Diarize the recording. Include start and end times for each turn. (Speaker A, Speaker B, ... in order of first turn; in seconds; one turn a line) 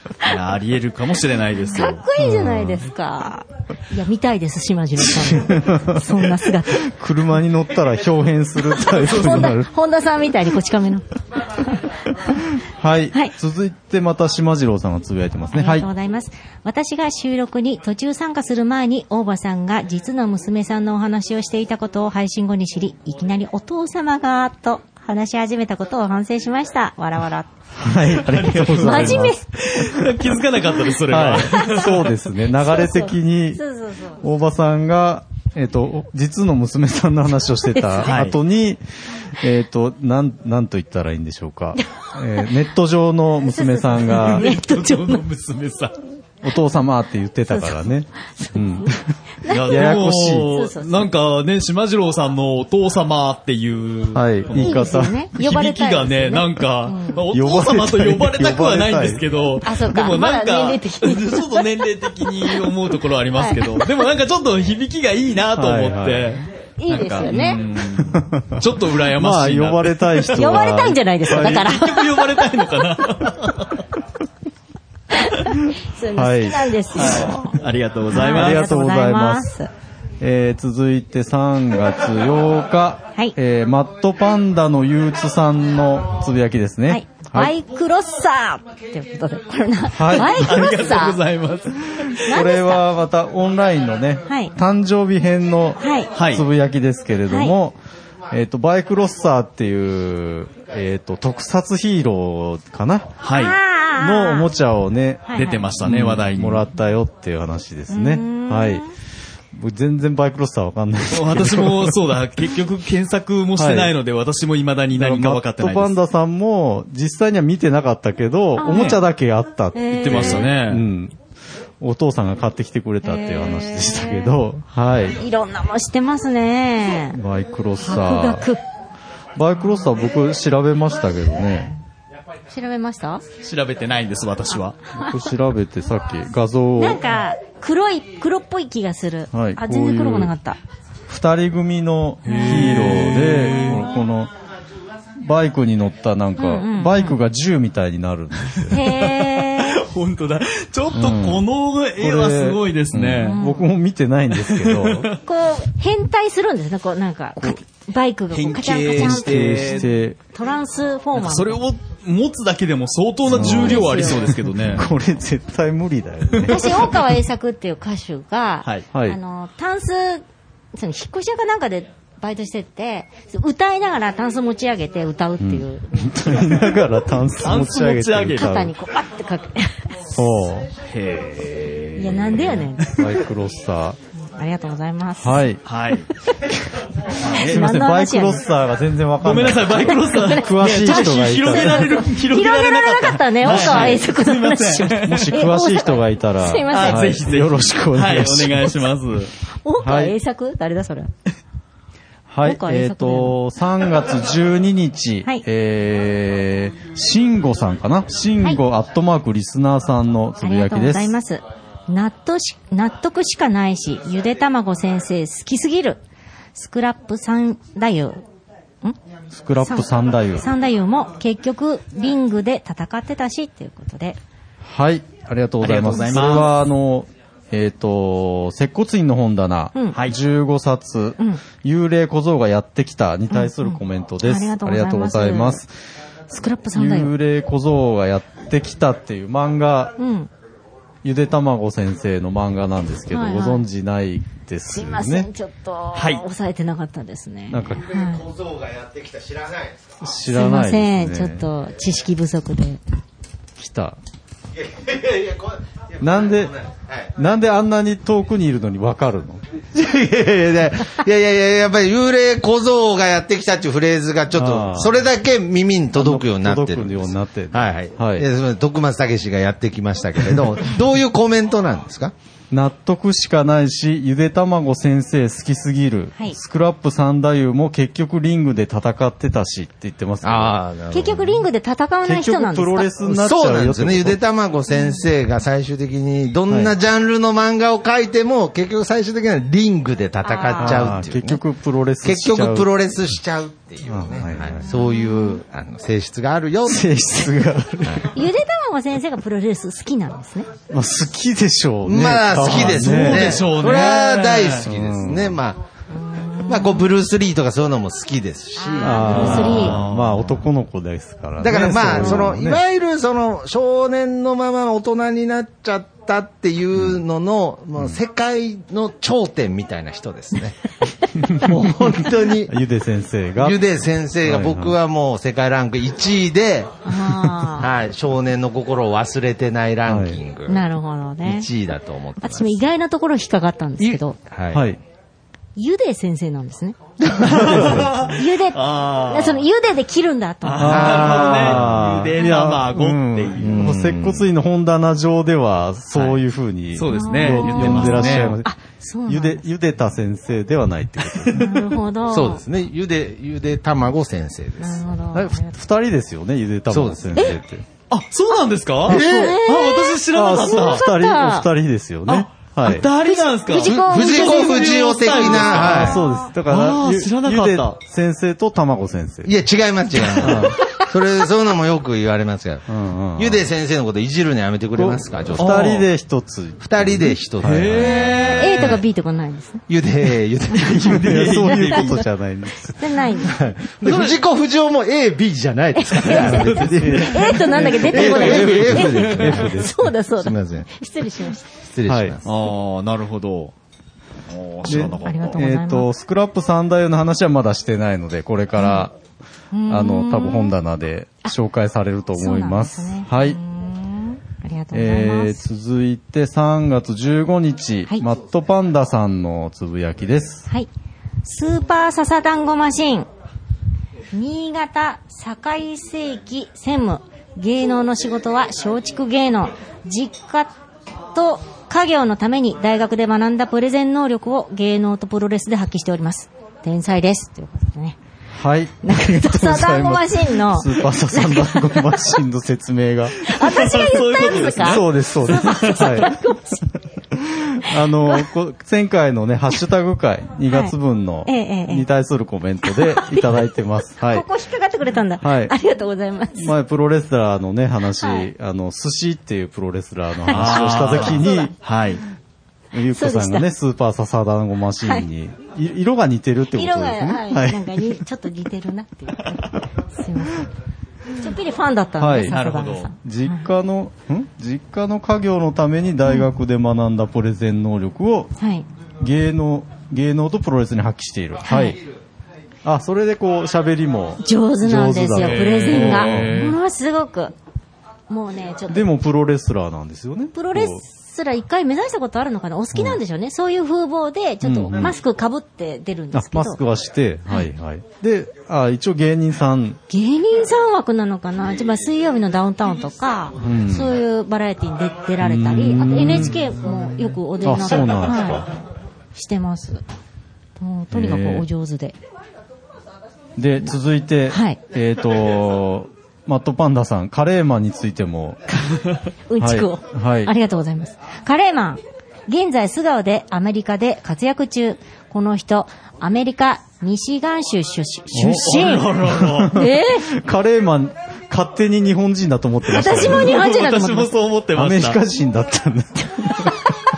Speaker A: 0.2-2.0
Speaker B: 1.7-6.9
Speaker C: 2.2-2.9
Speaker C: 5.1-9.7
Speaker B: 8.8-12.4
Speaker C: 12.6-15.9
Speaker B: 15.5-27.5
Speaker C: 27.7-30.1
Speaker A: 28.2-32.1
Speaker B: 28.6-29.4
Speaker C: 31.1-33.6
Speaker B: 31.5-31.9
Speaker B: 32.6-34.2
Speaker C: 34.2-44.5
Speaker B: 37.7-38.0
Speaker A: 38.0-38.4
Speaker B: 41.8-42.0
Speaker B: 43.4-45.2
Speaker A: 44.1-45.9
Speaker C: 46.4-50.5
Speaker B: 47.5-47.8
Speaker B: 48.4-51.1
Speaker A: 49.5-70.5
Speaker C: 54.1-55.1
Speaker B: 54.6-57.2
Speaker C: 57.3-59.2
Speaker B: 59.6-62.6
Speaker B: 63.3-63.9
Speaker C: 65.5-66.4
Speaker B: 66.8-67.6
Speaker C: 67.3-71.6
Speaker B: 70.4-72.5
Speaker A: 71.3-73.9
Speaker B: 75.1-77.6
Speaker C: 76.1-77.6
Speaker A: 77.0-78.7
Speaker B: 78.1-79.7
Speaker C: 78.1-79.5
Speaker C: 80.2-87.5
Speaker B: 86.9-91.2
Speaker C: 89.9-90.5
Speaker A: 90.1-92.3
Speaker B: 92.2-92.8
Speaker C: 92.3-97.8
Speaker B: 94.3-94.5
Speaker B: 95.8-96.1
Speaker A: 96.1-96.4
Speaker B: 97.3-97.5
Speaker C: 98.3-103.1
Speaker A: 103.2-103.6
Speaker B: 103.3-104.5
Speaker C: 103.9-108.8
Speaker B: 105.3-105.7
Speaker A: 105.3-106.7
Speaker B: 107.9-108.9
Speaker C: 109.5-112.0
Speaker A: 111.1-115.9
Speaker C: 113.5-113.9
Speaker C: 114.9-121.2
Speaker B: 118.6-119.0
Speaker A: 118.7-119.0
Speaker B: 119.7-120.5
Speaker A: 119.9-120.8
Speaker C: 121.8-125.2
Speaker B: 123.0-124.3
Speaker B: 125.2-127.2
Speaker C: 127.1-128.4
Speaker B: 127.8-128.6
Speaker C: 129.3-131.7
Speaker B: 132.5-133.2
Speaker A: 133.4-134.8
Speaker C: 134.9-137.0
Speaker B: 136.8-140.6
Speaker C: 139.3-140.3
Speaker C: 141.1-144.3
Speaker A: 142.2-143.9
Speaker C: 145.2-148.8
Speaker B: 146.4-147.2
Speaker A: 148.5-153.4
Speaker B: 148.7-149.8
Speaker C: 150.9-151.5
Speaker C: 152.0-155.1
Speaker B: 153.2-153.7
Speaker A: 154.3-155.2
Speaker B: 155.2-161.6
Speaker A: 158.3-159.8
Speaker C: 158.8-160.2
Speaker A: 161.2-164.8
Speaker C: 163.3-166.8
Speaker B: 163.3-164.8
Speaker A: 166.3-166.8
Speaker B: 166.4-176.7
Speaker C: 168.9-169.2
Speaker C: 175.4-178.7
Speaker A: 177.4-178.5
Speaker B: 178.4-180.0
Speaker C: 180.1-180.7
Speaker A: 180.8-183.1
Speaker B: 182.0-183.0
Speaker C: 182.9-184.0
Speaker B: 184.2-185.4
Speaker C: 185.2-185.6
Speaker A: 185.7-186.1
Speaker C: 187.1-192.0
Speaker A: 187.2-187.5
Speaker B: 187.3-188.4
Speaker A: 189.2-195.3
Speaker B: 189.7-197.2
Speaker C: 193.4-193.9
Speaker C: 195.0-198.8
Speaker A: 196.7-199.3
Speaker B: 199.6-201.1
Speaker C: 199.8-200.1
Speaker C: 202.3-211.1
Speaker B: 202.4-203.4
Speaker B: 210.4-216.0
Speaker B: 216.5-218.2
Speaker C: 219.3-220.4
Speaker B: 219.6-224.2
Speaker C: 224.6-235.7
Speaker A: 225.6-226.6
Speaker B: 233.3-235.6
Speaker B: 236.3-237.1
Speaker C: 236.7-239.9
Speaker B: 240.0-240.3
Speaker C: 241.0-245.3
Speaker B: 243.1-243.6
Speaker B: 244.7-248.2
Speaker A: 245.9-246.2
Speaker C: 247.5-247.9
Speaker D: 247.9-249.9
Speaker C: 250.0-251.4
Speaker B: 250.3-252.8
Speaker C: 253.6-254.0
Speaker D: 254.8-255.5
Speaker C: 256.0-256.6
Speaker C: 257.1-259.4
Speaker D: 259.7-272.1
Speaker C: 264.3-265.0
Speaker C: 265.9-268.2
Speaker C: 272.5-280.6
Speaker D: 280.2-281.4
Speaker B: 280.9-282.9
Speaker C: 282.0-284.2
Speaker D: 283.0-291.4
Speaker B: 284.7-285.0
Speaker C: 286.5-286.7
Speaker B: 290.2-290.9
Speaker C: 290.6-292.8
Speaker D: 292.0-297.1
Speaker C: 293.8-294.6
Speaker B: 294.6-295.4
Speaker C: 296.6-298.2
Speaker B: 298.1-300.5
Speaker C: 300.7-303.5
Speaker D: 301.8-305.6
Speaker A: 302.4-304.7
Speaker C: 304.6-305.4
Speaker B: 305.9-306.9
Speaker D: 306.4-309.7
Speaker B: 308.6-309.8
Speaker C: 308.8-312.6
Speaker A: 309.1-310.4
Speaker D: 311.4-320.8
Speaker C: 316.7-317.0
Speaker D: 321.3-322.5
Speaker C: 321.4-323.6
Speaker D: 323.4-326.8
Speaker C: 324.2-324.8
Speaker B: 326.8-327.7
Speaker C: 327.0-327.3
Speaker D: 327.6-330.6
Speaker C: 329.9-330.2
Speaker B: 330.5-331.5
Speaker D: 331.2-332.7
Speaker B: 332.2-334.2
Speaker D: 334.3-334.6
Speaker C: 334.5-334.8
Speaker B: 335.6-340.8
Speaker C: 337.2-338.0
Speaker A: 337.4-339.4
Speaker A: 340.4-343.9
Speaker C: 340.6-348.5
Speaker D: 340.6-341.9
Speaker D: 343.4-344.1
Speaker A: 345.9-346.2
Speaker A: 346.7-348.4
Speaker B: 346.9-349.4
Speaker C: 349.1-351.6
Speaker B: 351.3-352.4
Speaker D: 352.1-354.8
Speaker B: 354.6-355.6
Speaker C: 355.1-357.6
Speaker D: 356.7-357.0
Speaker A: 357.9-360.8
Speaker B: 358.9-361.5
Speaker D: 358.9-359.3
Speaker C: 360.1-362.9
Speaker A: 362.1-367.8
Speaker B: 363.0-365.2
Speaker D: 363.6-366.0
Speaker C: 365.5-369.3
Speaker D: 369.2-372.6
Speaker C: 370.2-370.6
Speaker C: 372.7-373.4
Speaker D: 373.2-375.8
Speaker C: 374.7-377.9
Speaker A: 375.3-375.9
Speaker D: 376.6-378.7
Speaker A: 377.4-378.8
Speaker B: 377.9-379.6
Speaker D: 379.7-381.2
Speaker A: 380.5-382.0
Speaker B: 380.6-382.0
Speaker C: 380.9-383.1
Speaker B: 382.6-383.4
Speaker D: 383.2-390.7
Speaker A: 383.8-384.2
Speaker B: 385.8-391.4
Speaker A: 386.0-386.9
Speaker C: 386.4-389.9
Speaker A: 388.3-389.4
Speaker D: 391.6-392.4
Speaker C: 391.8-392.1
Speaker A: 392.2-393.5
Speaker A: 394.3-395.4
Speaker C: 394.7-398.9
Speaker B: 394.7-395.9
Speaker B: 398.6-398.9
Speaker B: 399.5-400.5
Speaker C: 399.7-403.4
Speaker B: 402.1-405.4
Speaker C: 404.7-410.4
Speaker B: 411.2-413.1
Speaker B: 414.1-420.5
Speaker B: 421.1-428.0
Speaker C: 428.4-433.3
Speaker B: 428.8-432.2
Speaker B: 433.2-436.6
Speaker A: 433.3-436.0
Speaker C: 434.6-436.2
Speaker C: 437.1-444.2
Speaker B: 437.6-438.3
Speaker B: 441.2-441.9
Speaker B: 442.7-443.3
Speaker B: 444.0-446.5
Speaker C: 445.2-445.5
Speaker C: 446.4-451.5
Speaker B: 448.0-448.3
Speaker B: 450.2-451.5
Speaker A: 450.3-452.0
Speaker C: 452.7-457.9
Speaker B: 452.9-453.5
Speaker B: 456.5-460.5
Speaker B: 461.2-463.4
Speaker C: 462.0-462.4
Speaker A: 462.3-462.9
Speaker C: 463.0-468.3
Speaker B: 468.4-468.6
Speaker C: 469.0-471.8
Speaker B: 471.4-471.8
Speaker C: 472.6-476.4
Speaker B: 474.2-477.3
Speaker A: 475.2-476.6
Speaker B: 478.1-478.9
Speaker C: 478.7-480.8
Speaker B: 480.3-486.6
Speaker C: 484.4-484.9
Speaker C: 486.1-489.8
Speaker B: 489.9-498.6
Speaker C: 493.4-493.9
Speaker C: 495.2-496.5
Speaker C: 497.4-498.5
Speaker B: 499.1-499.8
Speaker B: 500.6-502.0
Speaker C: 500.9-501.5
Speaker C: 503.4-508.4
Speaker B: 504.3-504.6
Speaker B: 509.3-518.9
Speaker C: 509.4-510.3
Speaker C: 518.1-523.4
Speaker A: 518.2-519.6
Speaker B: 519.5-520.1
Speaker B: 522.7-524.1
Speaker A: 522.8-525.0
Speaker C: 524.5-526.6